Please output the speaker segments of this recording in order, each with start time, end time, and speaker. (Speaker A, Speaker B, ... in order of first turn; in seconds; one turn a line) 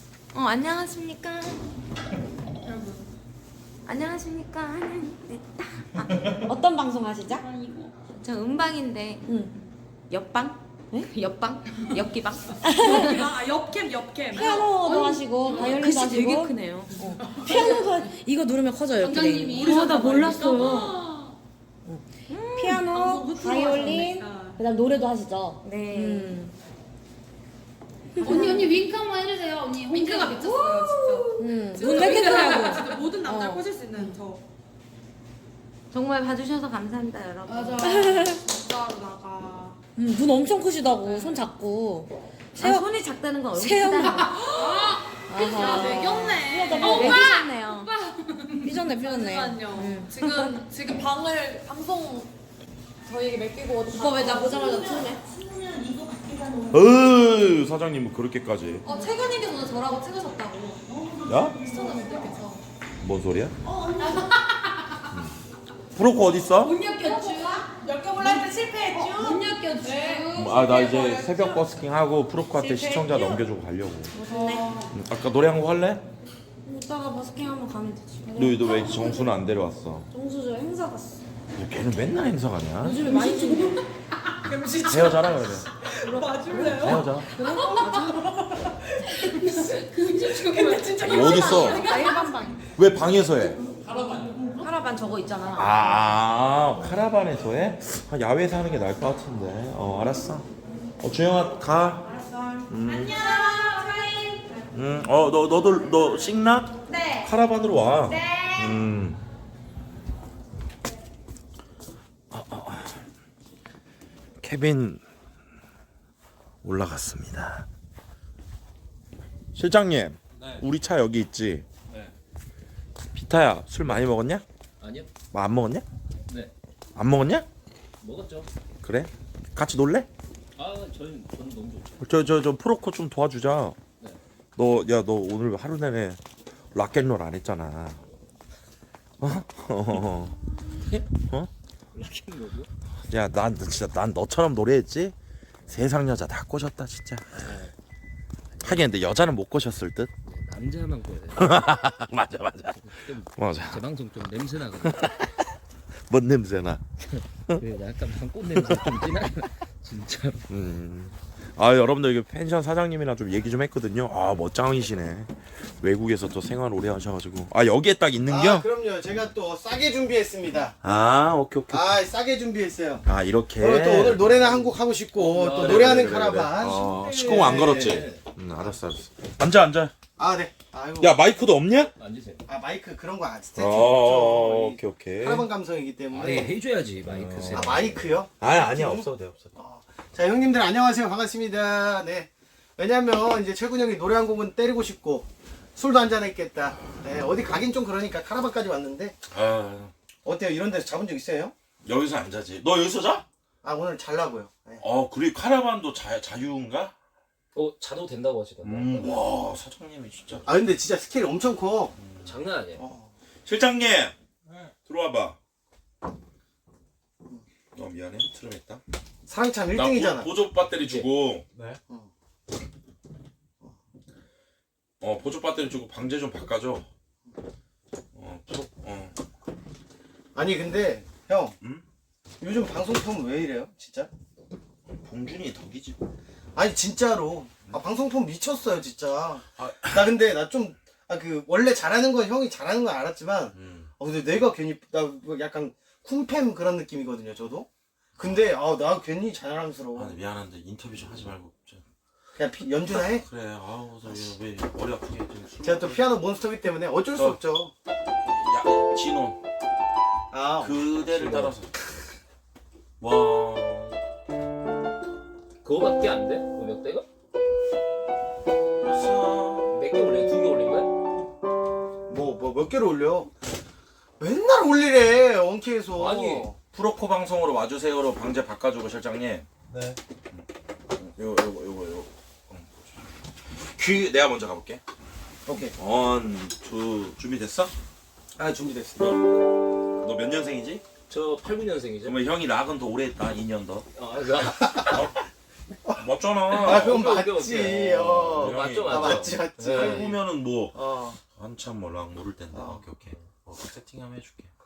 Speaker A: 0.3-1.6
Speaker B: 2.6-3.0
Speaker A: 3.9-6.4
Speaker C: 6.5-7.5
Speaker B: 7.4-7.9
Speaker A: 8.1-9.2
Speaker C: 9.3-9.5
Speaker A: 10.1-13.3
Speaker C: 12.6-13.2
Speaker B: 12.7-15.8
Speaker C: 14.3-19.9
Speaker A: 14.3-17.0
Speaker B: 17.2-17.9
Speaker B: 19.0-21.3
Speaker A: 19.5-21.0
Speaker C: 20.4-21.1
Speaker C: 21.9-26.5
Speaker A: 22.3-22.9
Speaker B: 22.9-24.6
Speaker A: 25.6-26.4
Speaker C: 28.2-28.7
Speaker B: 28.2-34.4
Speaker C: 29.9-34.1
Speaker A: 32.3-32.8
Speaker A: 35.9-38.0
Speaker B: 37.5-39.8
Speaker C: 37.8-38.4
Speaker C: 40.0-42.9
Speaker B: 40.9-41.4
Speaker A: 42.5-44.4
Speaker C: 43.5-44.5
Speaker B: 44.3-52.3
Speaker C: 45.3-47.3
Speaker A: 45.4-47.9
Speaker C: 48.6-50.6
Speaker B: 53.0-55.1
Speaker C: 53.9-55.2
Speaker D: 56.7-58.9
Speaker B: 58.8-62.6
Speaker D: 61.2-61.6
Speaker D: 63.0-63.5
Speaker B: 63.7-64.6
Speaker D: 65.1-65.4
Speaker D: 65.9-66.7
Speaker B: 66.6-71.5
Speaker C: 69.0-69.3
Speaker D: 70.3-74.1
Speaker C: 72.6-73.4
Speaker C: 74.1-74.7
Speaker B: 74.2-74.9
Speaker D: 74.9-76.0
Speaker C: 76.7-79.3
Speaker D: 78.3-80.1
Speaker C: 80.1-81.2
Speaker D: 81.5-83.1
Speaker C: 82.8-83.8
Speaker B: 83.1-92.4
Speaker D: 84.7-85.7
Speaker A: 86.0-87.0
Speaker C: 86.6-88.1
Speaker D: 86.7-87.3
Speaker A: 90.8-92.6
Speaker D: 91.0-91.9
Speaker D: 92.8-93.6
Speaker A: 94.6-96.0
Speaker D: 95.5-100.5
Speaker D: 101.0-102.1
Speaker D: 102.7-103.4
Speaker B: 103.2-104.3
Speaker D: 104.7-109.2
Speaker D: 112.3-113.0
Speaker D: 114.4-115.0
Speaker D: 116.6-117.7
Speaker D: 119.5-121.6
Speaker E: 120.4-120.6
Speaker D: 123.1-124.4
Speaker E: 124.8-125.1
Speaker D: 125.3-125.8
Speaker E: 126.3-126.5
Speaker D: 126.9-127.5
Speaker E: 128.0-128.5
Speaker D: 128.8-130.1
Speaker E: 130.6-132.1
Speaker D: 132.0-133.8
Speaker D: 134.6-136.2
Speaker D: 136.7-138.0
Speaker D: 139.2-140.4
Speaker E: 141.9-142.7
Speaker D: 143.1-145.1
Speaker D: 145.7-147.2
Speaker E: 147.3-147.7
Speaker E: 148.5-148.9
Speaker D: 148.6-150.1
Speaker E: 150.2-151.6
Speaker D: 151.4-153.8
Speaker E: 152.7-155.1
Speaker D: 154.8-155.4
Speaker D: 156.1-156.8
Speaker E: 157.0-160.5
Speaker D: 158.6-159.1
Speaker D: 160.5-168.7
Speaker F: 168.2-170.7
Speaker D: 170.8-172.0
Speaker F: 171.7-173.0
Speaker D: 173.1-174.6
Speaker F: 173.6-178.1
Speaker E: 175.2-176.3
Speaker D: 175.6-179.9
Speaker E: 177.1-178.2
Speaker F: 180.2-181.2
Speaker D: 181.0-181.9
Speaker E: 181.9-182.4
Speaker F: 182.5-186.5
Speaker D: 183.6-185.5
Speaker E: 186.1-188.2
Speaker D: 187.1-187.8
Speaker F: 187.5-199.2
Speaker D: 188.4-189.5
Speaker D: 196.8-197.1
Speaker D: 199.3-199.9
Speaker F: 200.2-201.5
Speaker D: 201.8-203.2
Speaker F: 203.6-204.8
Speaker D: 204.8-206.9
Speaker E: 207.5-209.3
Speaker D: 208.6-210.5
Speaker F: 210.4-211.9
Speaker D: 212.0-212.3
Speaker E: 212.2-212.8
Speaker F: 212.8-213.1
Speaker D: 213.4-214.1
Speaker D: 214.7-215.4
Speaker D: 217.7-218.8
Speaker F: 219.3-220.3
Speaker D: 219.7-221.8
Speaker E: 220.8-221.1
Speaker D: 225.0-226.8
Speaker D: 228.1-229.1
Speaker F: 230.3-231.5
Speaker F: 232.4-234.1
Speaker D: 234.9-236.0
Speaker F: 236.6-250.1
Speaker D: 239.6-240.1
Speaker D: 243.5-243.9
Speaker D: 249.9-251.8
Speaker F: 252.3-253.2
Speaker D: 252.9-256.1
Speaker F: 255.6-257.7
Speaker D: 258.2-259.4
Speaker F: 260.3-260.8
Speaker D: 260.6-261.7
Speaker E: 261.1-261.5
Speaker D: 263.0-264.0
Speaker E: 265.6-267.1
Speaker D: 268.8-269.7
Speaker E: 269.7-270.9
Speaker F: 272.1-273.3
Speaker F: 274.2-276.6
Speaker E: 275.9-276.5
Speaker D: 276.7-279.5
Speaker D: 280.3-284.8
Speaker F: 285.4-285.7
Speaker D: 285.8-287.7
Speaker F: 288.4-289.2
Speaker D: 290.0-290.8
Speaker E: 291.1-292.1
Speaker D: 292.0-293.9
Speaker E: 293.9-295.1
Speaker D: 294.6-295.2
Speaker F: 295.8-300.2
Speaker D: 295.9-304.5
Speaker E: 296.5-300.1
Speaker F: 300.7-301.2
Speaker F: 302.5-302.8